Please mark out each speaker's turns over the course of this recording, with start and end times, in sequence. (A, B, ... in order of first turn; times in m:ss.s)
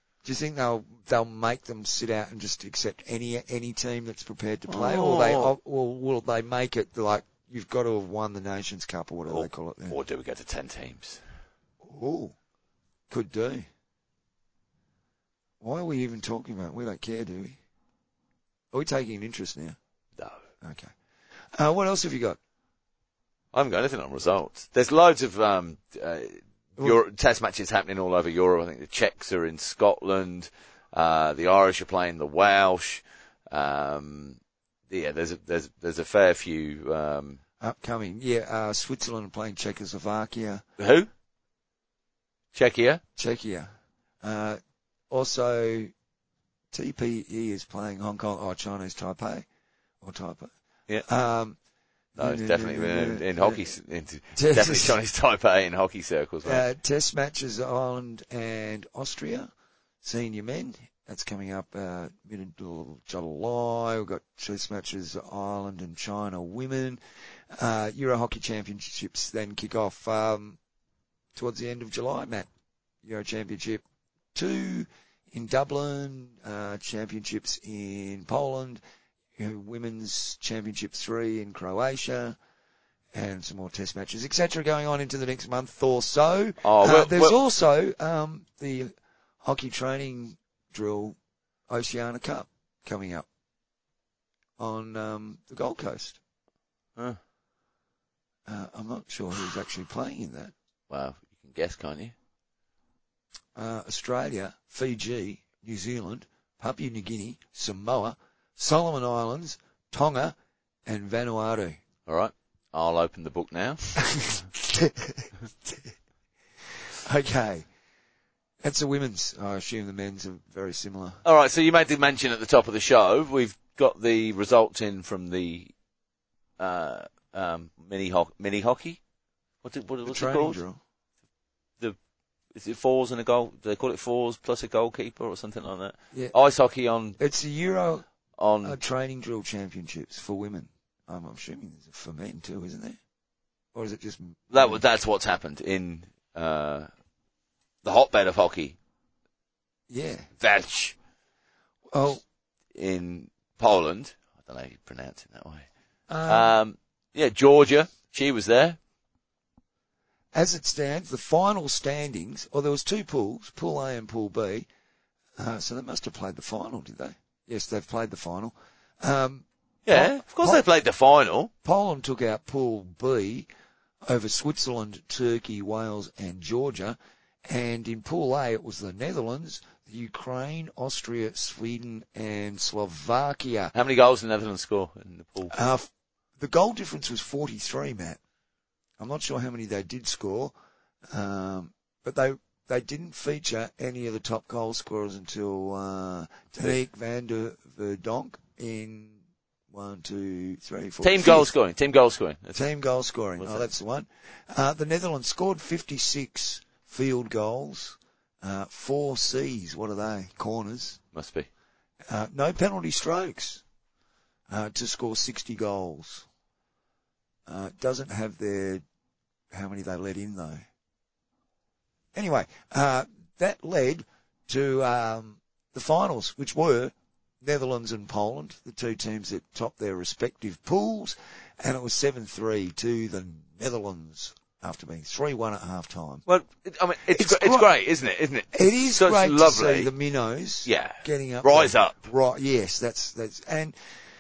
0:00.2-0:10.0 A
0:04.7-0:05.5 B
0:09.3-0:11.2 B
0:11.8-0:12.4 A
0:13.1-0:13.7 A
0:15.6-0:17.6 A
0:18.7-0:19.8 A
0:20.6-0:20.9 A
0:21.6-0:22.4 A
0:23.5-0:37.4 B
0:37.6-0:40.6 A
0:40.8-0:41.1 B
0:42.5-0:43.0 B
0:43.2-0:43.7 A
0:44.2-0:45.9 A
0:46.7-0:49.5 A
0:50.0-0:50.5 A
0:51.0-0:51.6 A
0:52.2-0:53.6 A
0:52.2-0:56.6 B
0:54.4-0:55.0 A
0:56.4-0:59.5 A
1:00.0-1:07.0 A
1:07.5-1:10.6 A
1:11.4-1:12.5 A
1:13.0-1:13.8 A
1:14.3-1:18.8 A
1:19.4-1:22.4 A
1:23.1-1:31.2 A
1:26.6-1:27.4 B
1:31.7-1:33.3 A
1:34.6-1:36.2 A
1:38.5-1:40.5 A
1:40.9-1:42.2 B
1:43.6-1:51.8 A
1:52.1-1:54.0 B
1:54.0-1:55.9 A
1:57.0-1:57.7 A
1:58.6-2:01.2 A
2:01.2-2:05.7 B
2:06.6-2:09.0 B
2:09.6-2:10.6 B
2:10.1-2:10.8 A
2:12.5-2:17.2 B
2:17.2-2:18.0 A
2:18.4-2:18.8 B
2:18.6-2:23.0 A
2:23.7-2:24.8 A
2:24.5-2:26.9 B
2:27.8-2:28.8 B
2:29.9-2:30.3 A
2:30.4-2:31.0 B
2:31.9-2:32.2 A
2:32.7-2:35.7 B
2:36.1-2:36.5 A
2:36.3-2:38.8 B
2:40.3-2:44.7 A
2:45.4-2:50.6 A
2:49.9-2:51.5 B
2:51.6-2:53.5 A
2:54.0-3:03.7 A
3:03.7-3:05.6 B
3:05.5-3:08.2 A
3:09.0-3:10.5 A
3:11.1-3:19.2 A
3:19.7-3:21.5 A
3:21.0-3:22.6 B
3:22.6-3:31.0 A
3:23.4-3:23.7 B
3:31.1-3:31.5 B
3:32.1-3:33.6 A
3:34.5-3:36.3 A
3:37.5-3:38.8 A
3:39.5-3:40.6 A
3:42.1-3:56.2 A
3:56.3-3:59.9 B
3:57.1-3:57.7 A
3:58.5-4:03.8 A
4:00.6-4:02.0 B